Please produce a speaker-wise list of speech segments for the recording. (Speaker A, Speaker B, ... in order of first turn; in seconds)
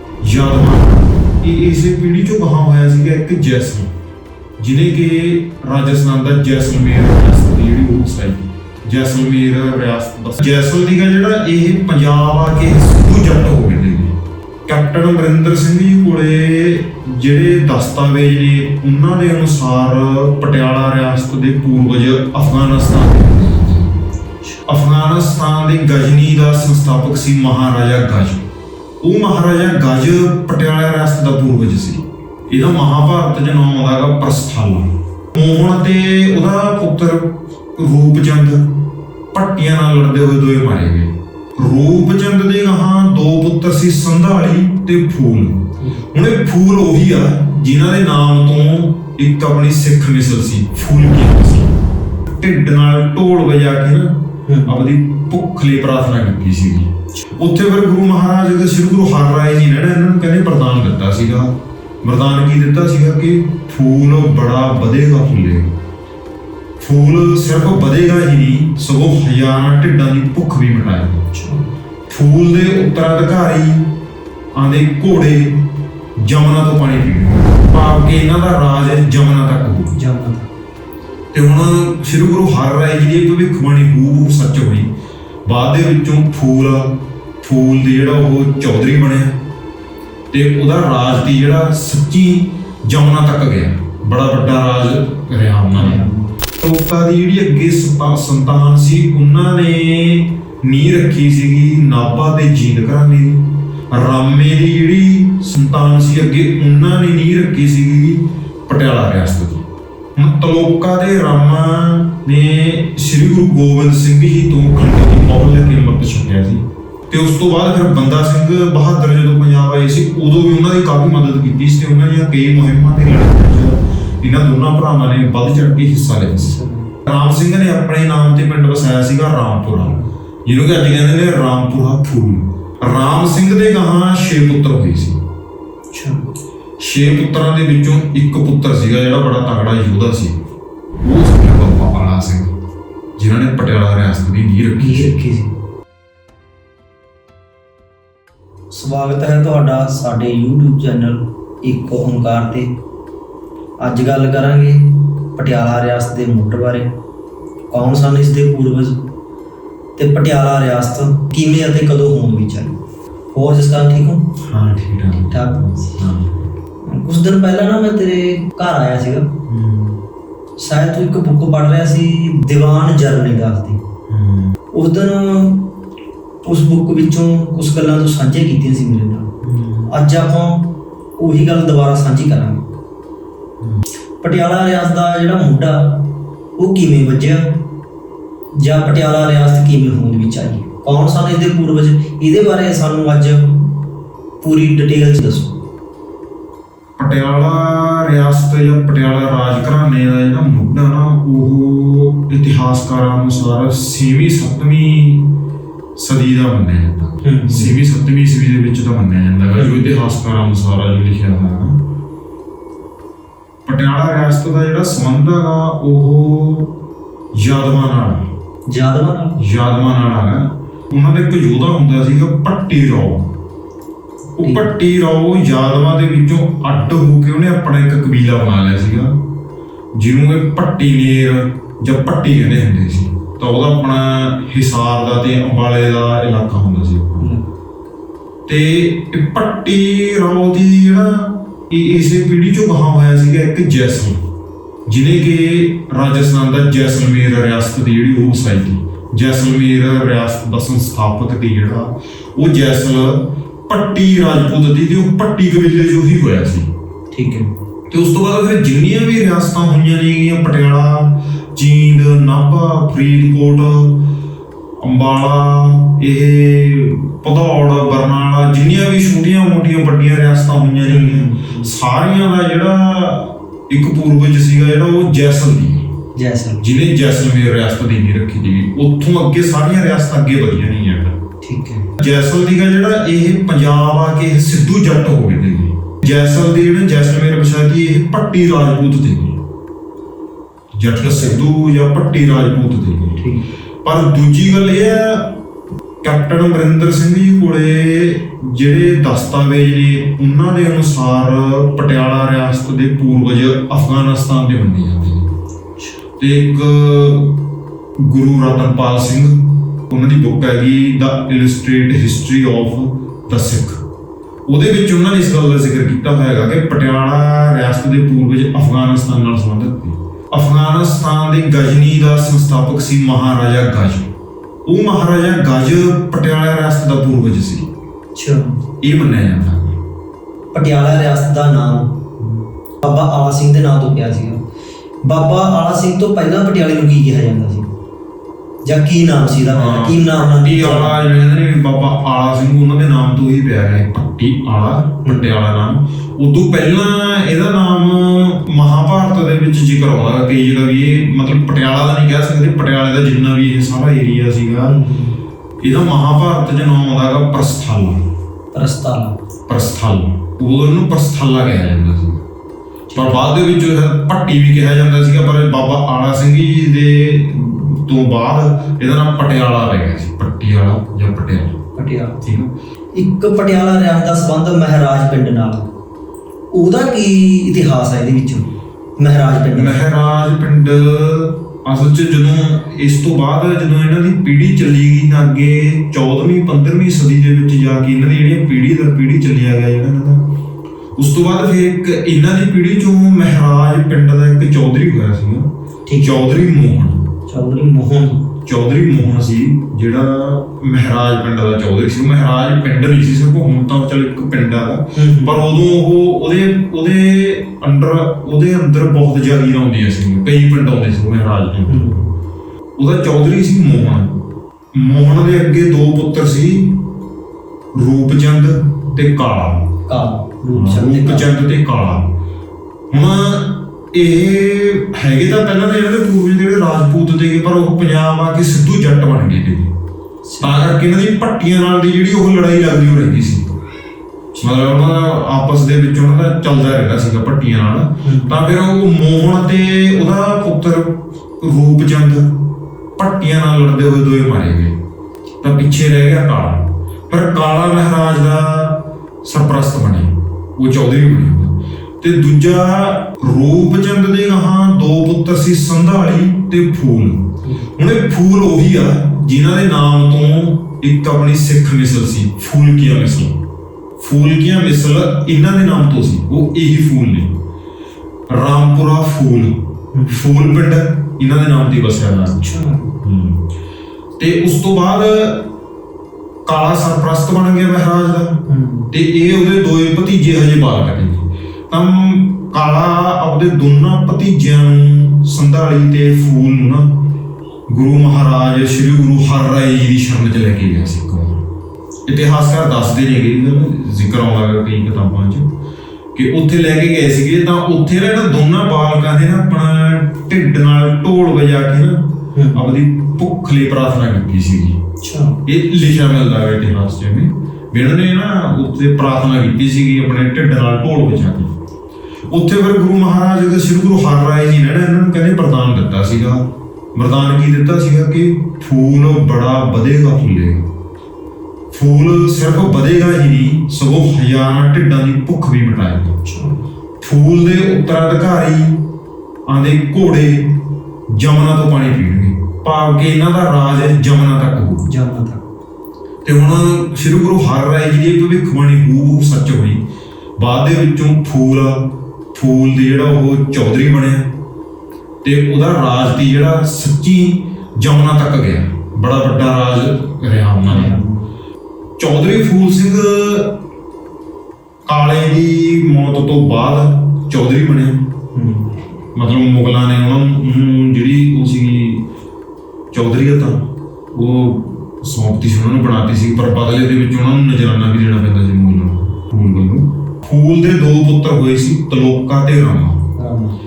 Speaker A: 0.2-3.9, 4.6-14.2, 14.7-24.0, 24.7-28.4, 29.0-65.7, 66.8-71.2, 72.1-73.9, 74.6-80.0, 81.3-84.9, 85.5-89.4, 90.3-96.0, 96.6-135.2, 136.8-140.4, 141.0-142.5, 143.2-145.2, 164.4-166.5, 169.5-170.0, 174.1-174.6, 179.4-179.9, 197.0-205.4, 206.0-211.8, 213.7-216.7, 217.3-218.3, 219.4-223.3, 224.4-229.2, 229.9-237.3, 238.5-244.2, 244.9-256.7, 257.9-264.1, 264.8-275.9, 276.6-281.2, 282.0-289.4, 290.7-293.3, 293.8-295.4, 296.0-305.3, 306.2-307.4, 308.0-313.8, 314.5-324.1, 324.7-327.7, 328.8-329.8, 332.2-332.4, 339.6-354.8, 355.6-358.0, 359.5-362.2, 362.9-371.6, 372.2-372.5, 379.5-390.3, 391.0-397.1, 398.4-412.0, 412.8-416.9, 417.8-419.7, 420.5-422.1, 422.9-429.7, 430.4-433.5, 434.4-442.4, 443.0-444.8, 445.4-463.4, 464.0-467.3, 468.3-472.4, 473.0-473.4, 474.2-475.5, 476.5-487.0, 487.7-491.4, 492.1-495.5, 496.1-504.8, 505.4-511.5, 512.3-520.7, 521.7-526.2, 527.0-528.8, 529.5-534.9, 536.2-539.8, 540.4-544.3, 545.2-551.0, 552.0-553.6, 554.9-558.1, 559.1-562.0, 562.9-573.1
Speaker B: 54.5-54.8, 71.3-71.7, 79.9-80.5, 95.8-96.3, 126.4-126.9, 135.9-136.3, 144.8-145.6, 148.7-152.7, 153.8-156.9, 157.7-159.1, 160.0-162.8, 163.3-164.3, 165.3-166.0, 166.8-169.4, 170.6-173.8, 174.7-175.8, 176.4-179.3, 179.9-182.6, 184.2-187.7, 188.6-193.9, 194.4-195.6, 207.2-207.8, 209.6-209.9, 218.7-219.4, 224.4-224.7, 237.2-237.5, 257.1-257.5, 270.9-271.7, 276.2-276.6, 281.4-281.9, 291.0-291.4, 293.2-293.5, 328.1-328.6, 330.5-332.0, 332.8-334.4, 335.0-337.7, 338.6-341.0, 354.6-355.2, 358.5-359.2, 362.9-363.3, 371.8-372.2, 372.9-375.7, 376.5-379.8, 395.9-396.1, 397.3-398.3, 404.9-405.4, 411.7-412.1, 419.9-421.3, 430.2-430.6, 438.0-438.4, 469.9-470.2, 472.3-472.9, 478.5-478.9, 502.4-502.7, 505.0-505.4, 526.2-526.6, 534.9-535.4, 550.7-551.3, 558.3-558.8, 573.2-573.6